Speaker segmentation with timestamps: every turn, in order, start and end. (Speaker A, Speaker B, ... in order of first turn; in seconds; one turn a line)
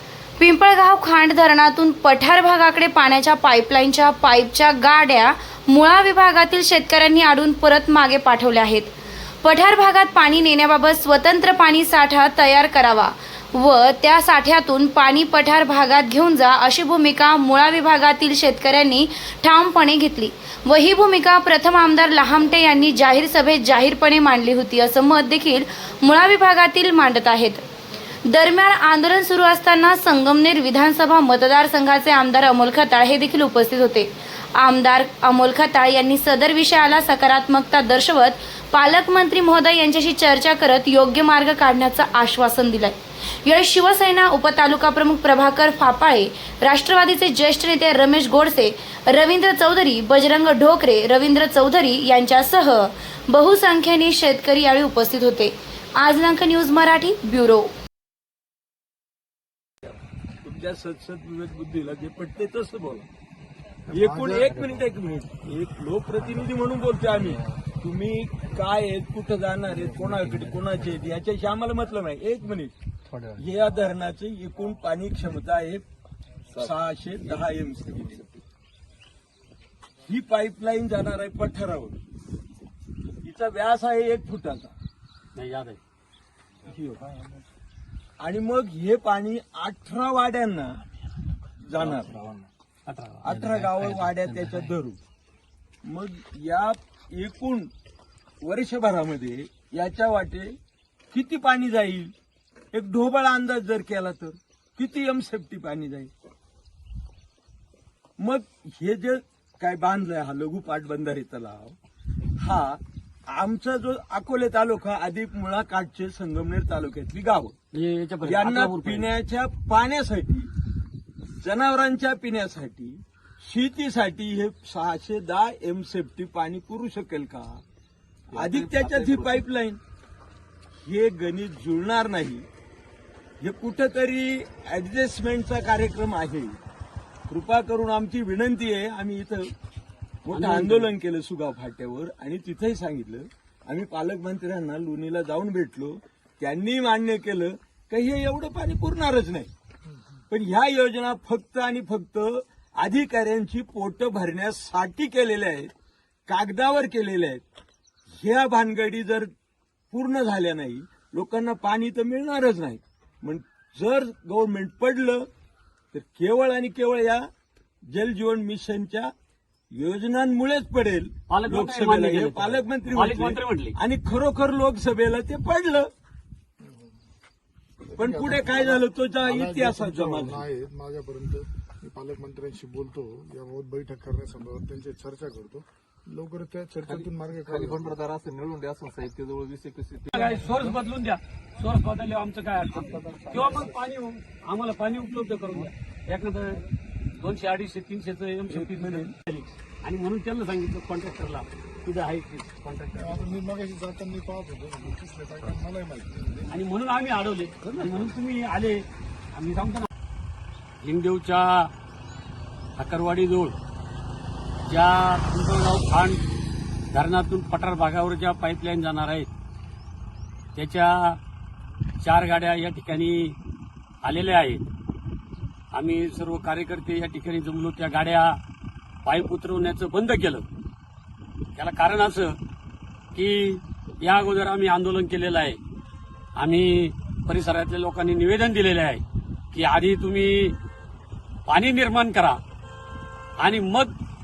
Speaker A: 0.4-27.6
Speaker A: 28.3-57.7
Speaker B: 60.4-63.1
Speaker C: 63.9-64.5
Speaker B: 63.9-72.7
Speaker D: 64.5-64.8
Speaker D: 67.2-67.5
Speaker D: 73.1-73.4
Speaker B: 73.4-75.8
Speaker B: 76.6-78.2
Speaker B: 80.1-82.0
Speaker B: 83.2-84.7
Speaker E: 85.3-85.8
Speaker B: 86.7-87.1
Speaker B: 88.2-90.8
Speaker B: 91.6-92.2
Speaker E: 92.9-93.3
Speaker B: 93.2-95.0
Speaker B: 95.8-97.7
Speaker B: 98.4-100.5
Speaker B: 101.1-102.1
Speaker B: 102.7-106.1
Speaker B: 108.2-111.8
Speaker B: 112.4-117.5
Speaker E: 117.7-119.1
Speaker B: 118.2-120.5
Speaker B: 121.4-127.6
Speaker D: 128.3-129.4
Speaker B: 128.3-129.8
Speaker B: 130.8-132.4
Speaker B: 133.4-136.6
Speaker B: 137.3-139.5
Speaker B: 140.2-149.5
Speaker E: 140.3-140.9
Speaker B: 150.3-155.7
Speaker B: 156.3-157.4
Speaker B: 158.2-159.3
Speaker B: 159.9-165.3
Speaker B: 165.9-167.3
Speaker B: 167.9-169.1
Speaker B: 169.7-175.9
Speaker E: 171.3-173.7
Speaker C: 177.9-188.0
Speaker B: 177.9-180.5
Speaker D: 186.8-190.7
Speaker E: 190.1-196.6
Speaker C: 192.8-193.7
Speaker E: 197.2-203.3
Speaker B: 198.5-199.1
Speaker C: 202.9-206.6
Speaker E: 206.5-209.9
Speaker E: 210.8-211.7
Speaker E: 212.8-213.6
Speaker E: 214.7-216.2
Speaker E: 216.9-219.3
Speaker E: 220.5-221.2
Speaker E: 222.0-223.4
Speaker E: 224.0-224.6
Speaker E: 225.7-228.4
Speaker E: 229.0-230.5
Speaker E: 231.6-232.4
Speaker E: 233.1-235.6
Speaker E: 236.3-240.6
Speaker E: 241.5-242.4
Speaker E: 243.4-243.9